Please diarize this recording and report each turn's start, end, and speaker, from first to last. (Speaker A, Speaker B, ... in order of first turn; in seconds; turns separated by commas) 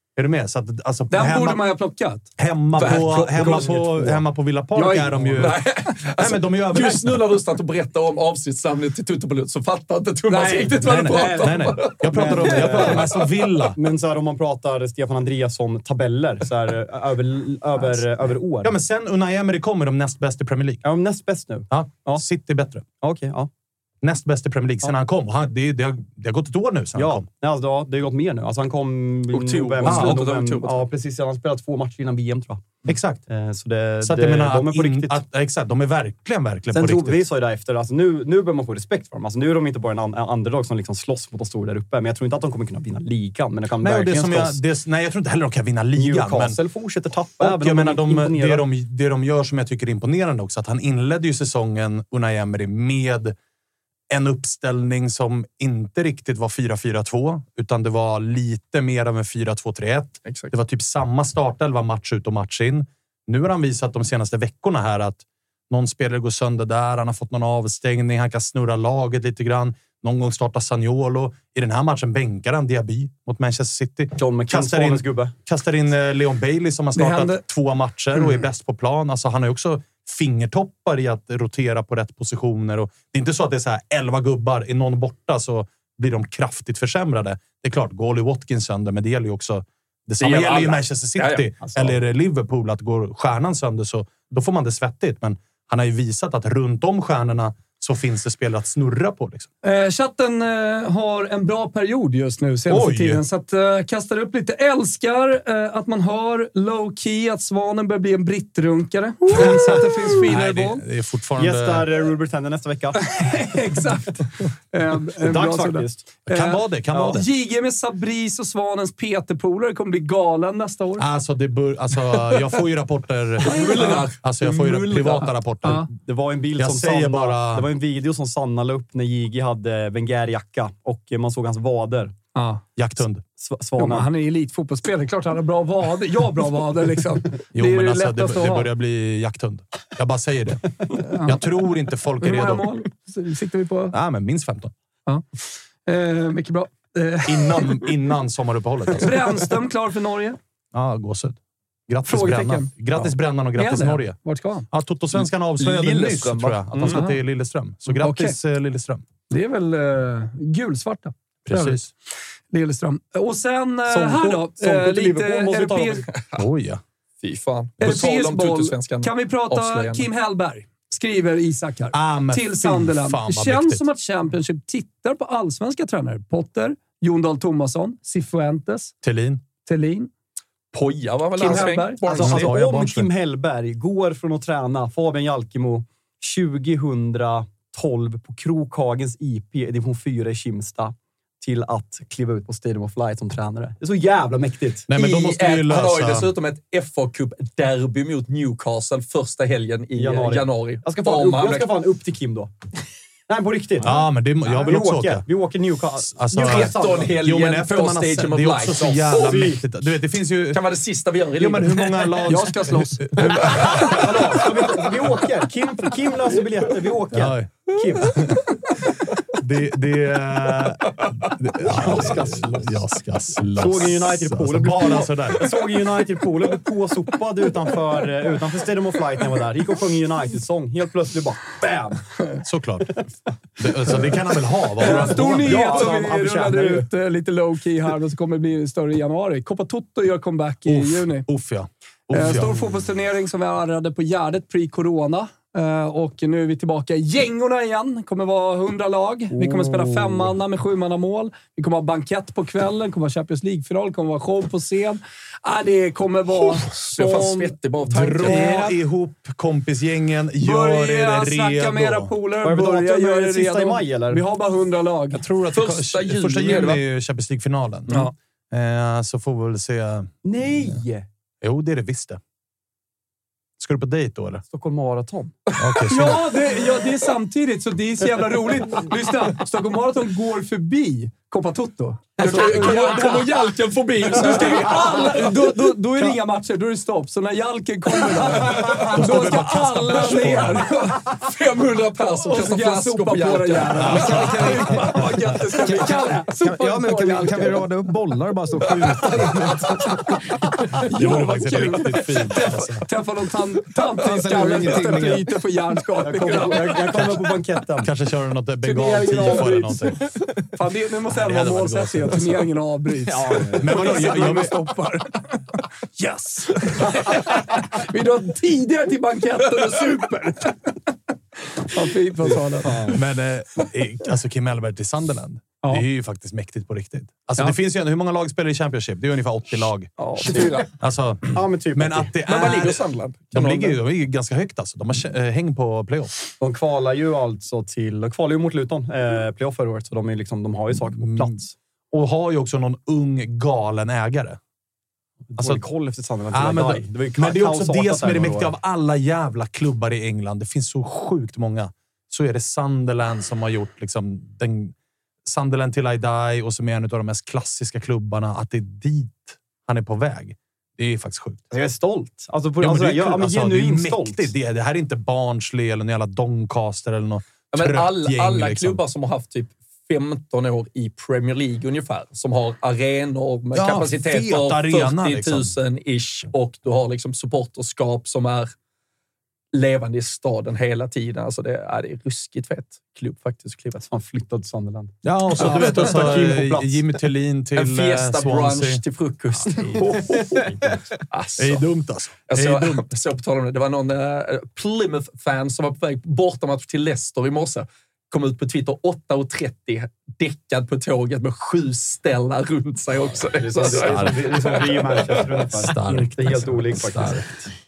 Speaker A: 0.1-1.6, Speaker B: 1.1-3.8, Speaker A: 2.4-7.3, Speaker C: 2.8-3.8, Speaker B: 4.7-5.5, Speaker C: 5.3-12.9, Speaker B: 10.3-12.0, Speaker A: 10.8-13.8, Speaker D: 12.0-18.7, Speaker A: 18.6-20.8, Speaker D: 20.8-22.2, Speaker A: 21.7-22.8, Speaker D: 23.0-23.5, Speaker A: 24.0-27.2, Speaker D: 26.9-35.2, Speaker C: 29.3-30.9, Speaker A: 29.8-30.2, Speaker A: 32.9-33.2, Speaker A: 34.0-37.2, Speaker D: 36.7-44.6, Speaker A: 43.8-46.5, Speaker D: 46.0-48.6, Speaker A: 47.4-53.3, Speaker A: 54.1-99.5, Speaker C: 60.2-60.5, Speaker D: 74.2-75.3, Speaker B: 77.0-77.4, Speaker C: 90.2-91.5, Speaker B: 99.6-110.8, Speaker A: 102.7-103.2, Speaker A: 109.3-111.9, Speaker D: 111.4-113.2, Speaker B: 113.0-121.0, Speaker D: 115.2-116.2, Speaker A: 116.3-117.2, Speaker D: 116.9-117.2, Speaker A: 121.0-125.9, Speaker C: 123.4-125.3, Speaker B: 123.5-124.1, Speaker B: 125.6-125.9, Speaker D: 125.9-132.2, Speaker A: 126.6-127.7, Speaker B: 132.3-132.6, Speaker A: 132.8-133.2, Speaker D: 133.4-134.1, Speaker B: 133.8-138.7, Speaker A: 137.5-140.7, Speaker B: 141.0-141.4, Speaker A: 141.2-142.7, Speaker B: 142.2-143.9, Speaker A: 143.9-144.7, Speaker B: 145.1-147.9, Speaker A: 147.2-149.4, Speaker B: 149.0-150.4, Speaker A: 150.7-154.2, Speaker B: 152.0-154.7, Speaker A: 154.7-159.0, Speaker C: 155.2-157.0, Speaker B: 156.9-157.2, Speaker B: 157.9-158.3, Speaker B: 159.3-161.8, Speaker A: 161.4-161.9, Speaker B: 162.5-166.1, Speaker D: 163.9-166.1, Speaker C: 166.1-166.4, Speaker A: 166.3-166.8, Speaker C: 167.2-170.1, Speaker B: 167.8-178.9, Speaker A: 171.9-173.8, Speaker A: 179.0-179.4, Speaker B: 179.6-180.1, Speaker C: 180.7-182.5, Speaker B: 181.4-182.2, Speaker D: 181.4-194.9, Speaker A: 182.2-183.1, Speaker A: 194.9-196.3, Speaker C: 194.9-201.7, Speaker D: 199.9-202.5, Speaker D: 203.3-207.1, Speaker A: 203.8-205.2, Speaker A: 206.1-210.6, Speaker C: 206.3-209.3, Speaker D: 209.1-209.6, Speaker C: 210.5-212.3, Speaker A: 211.4-214.5, Speaker B: 212.2-213.3, Speaker C: 213.2-213.9, Speaker D: 213.7-218.4, Speaker A: 217.1-218.4, Speaker A: 219.3-225.6, Speaker D: 221.6-222.8, Speaker D: 223.4-232.1, Speaker A: 232.4-233.0, Speaker A: 233.6-235.9, Speaker B: 234.8-241.3, Speaker D: 234.8-236.9, Speaker A: 240.7-242.6, Speaker B: 242.1-258.7, Speaker D: 249.3-250.2, Speaker C: 256.8-258.5, Speaker A: 257.9-262.1, Speaker B: 260.4-265.2, Speaker D: 262.4-264.2, Speaker A: 265.1-270.8, Speaker C: 265.5-266.8, Speaker D: 270.2-271.1, Speaker A: 271.4-272.2, Speaker A: 273.6-274.4, Speaker D: 274.5-275.4, Speaker A: 275.6-276.3, Speaker B: 275.9-283.5, Speaker C: 282.2-285.3, Speaker B: 284.1-291.2, Speaker C: 288.3-288.9, Speaker A: 288.4-290.7, Speaker C: 291.0-294.3, Speaker B: 292.0-297.7, Speaker A: 293.8-295.2, Speaker E: 293.8-299.9, Speaker B: 299.0-299.5, Speaker B: 300.7-307.1, Speaker A: 300.9-302.9, Speaker E: 304.0-305.3, Speaker D: 306.0-307.9, Speaker A: 307.8-310.0, Speaker B: 308.6-320.9, Speaker A: 311.1-312.5, Speaker E: 313.1-313.8, Speaker A: 313.6-314.6, Speaker B: 321.5-322.9, Speaker A: 322.9-329.9, Speaker D: 330.0-330.7, Speaker A: 330.8-336.1, Speaker D: 331.3-332.1, Speaker C: 332.2-333.8, Speaker D: 336.4-341.5, Speaker A: 340.9-341.4, Speaker A: 341.9-344.4, Speaker D: 345.3-348.5, Speaker A: 345.4-345.6, Speaker A: 346.3-361.4, Speaker D: 361.5-364.3, Speaker A: 362.6-368.8, Speaker C: 367.5-378.5, Speaker A: 373.5-375.5, Speaker C: 379.5-383.8, Speaker D: 383.8-386.8, Speaker A: 385.0-388.8, Speaker C: 387.6-390.4, Speaker D: 389.4-390.8, Speaker C: 391.1-391.6, Speaker A: 391.4-392.9, Speaker C: 392.3-405.2, Speaker D: 403.4-407.5, Speaker A: 403.6-404.8, Speaker A: 405.6-407.2